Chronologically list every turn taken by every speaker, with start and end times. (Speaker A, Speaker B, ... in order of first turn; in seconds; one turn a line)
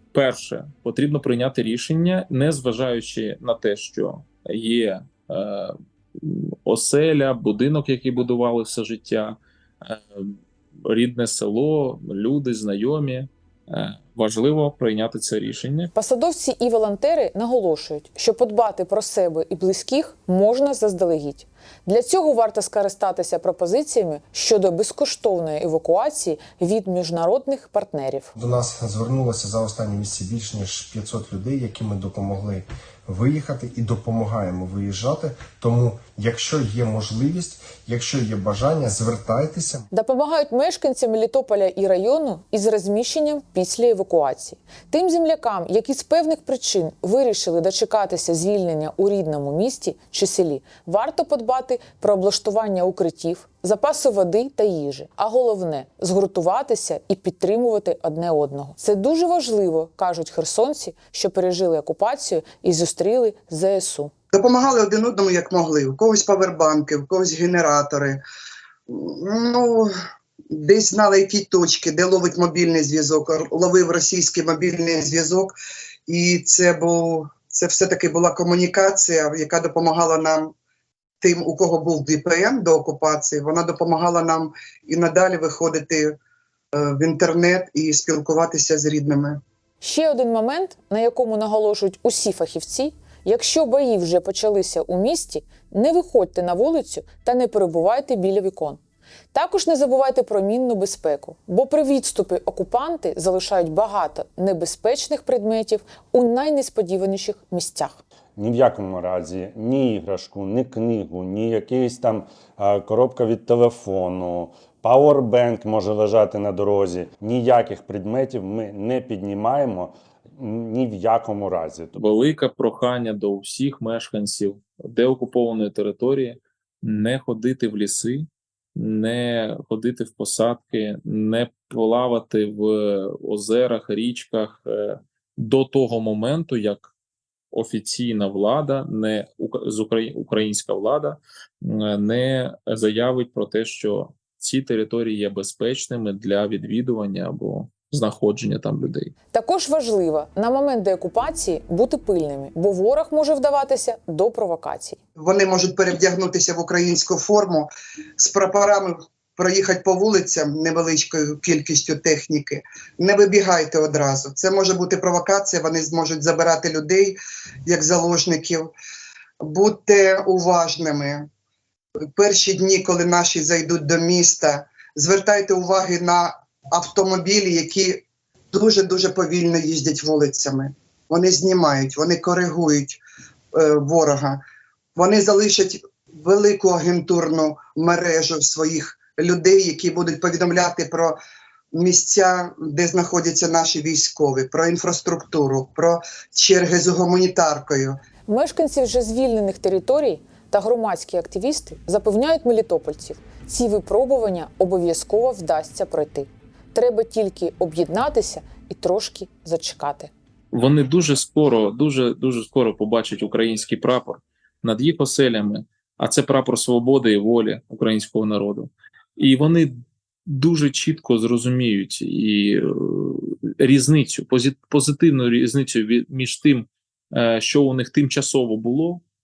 Speaker A: 0.1-15.9
Speaker B: 15.9-28.3
Speaker C: 28.3-39.9
Speaker B: 39.9-64.1
Speaker D: 64.3-68.2
Speaker D: 68.9-69.9
Speaker D: 70.5-75.5
Speaker D: 76.1-80.5
Speaker D: 81.2-86.2
Speaker D: 86.7-89.4
Speaker B: 89.8-98.8
Speaker B: 99.3-108.0
Speaker E: 108.4-122.0
Speaker A: 122.0-136.9
Speaker A: 137.5-149.1
Speaker B: 149.3-155.0
Speaker D: 155.2-168.7
Speaker D: 169.4-171.3
Speaker D: 172.2-183.0
Speaker D: 183.5-184.4
Speaker D: 184.9-191.2
Speaker D: 191.7-198.0
Speaker B: 198.3-210.1
Speaker A: 210.5-229.0